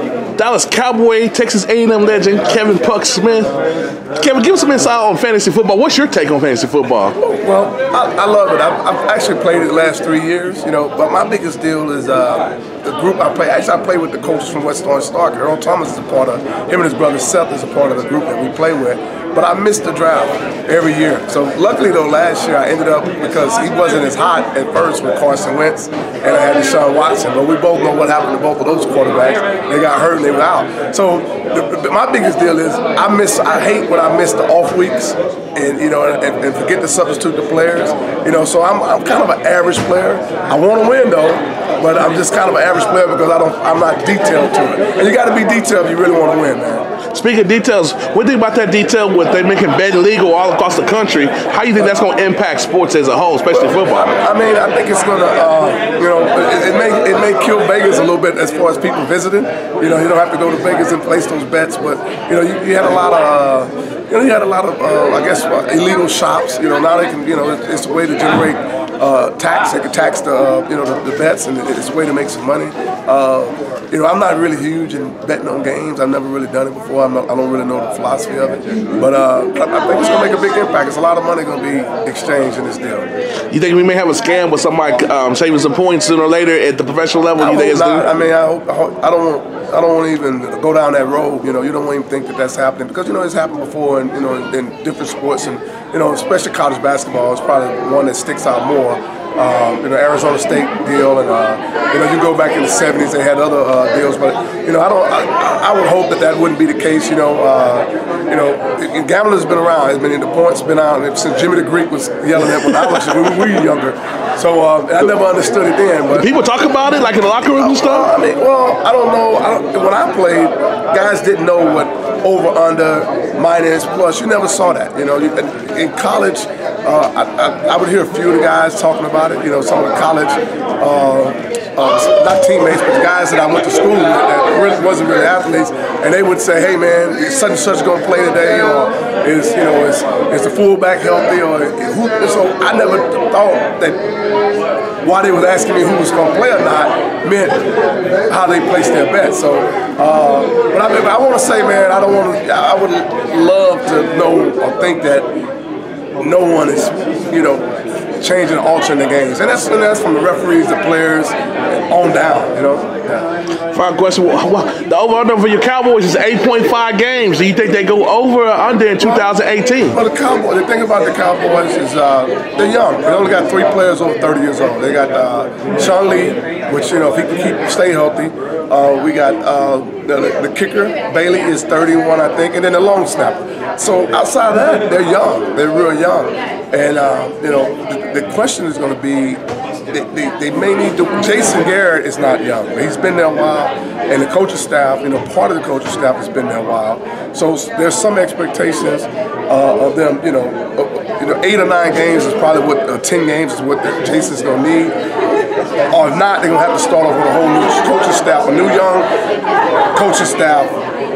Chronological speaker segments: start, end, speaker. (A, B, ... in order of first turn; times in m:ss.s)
0:00.4-0:03.5 A
0:04.2-0:07.2 A
0:07.2-0:46.8 B
0:47.1-0:54.1 A
0:53.5-1:23.1 B
1:23.5-1:28.1 A
1:27.4-1:56.3 B
1:56.1-1:58.1 A
1:57.6-2:24.0 B
2:25.0-2:27.7 B
2:28.3-2:35.3 B
2:36.2-2:43.2 B
2:43.7-2:50.0 A
2:49.9-3:24.9 B
3:25.9-3:29.1 B
3:29.9-3:30.8 B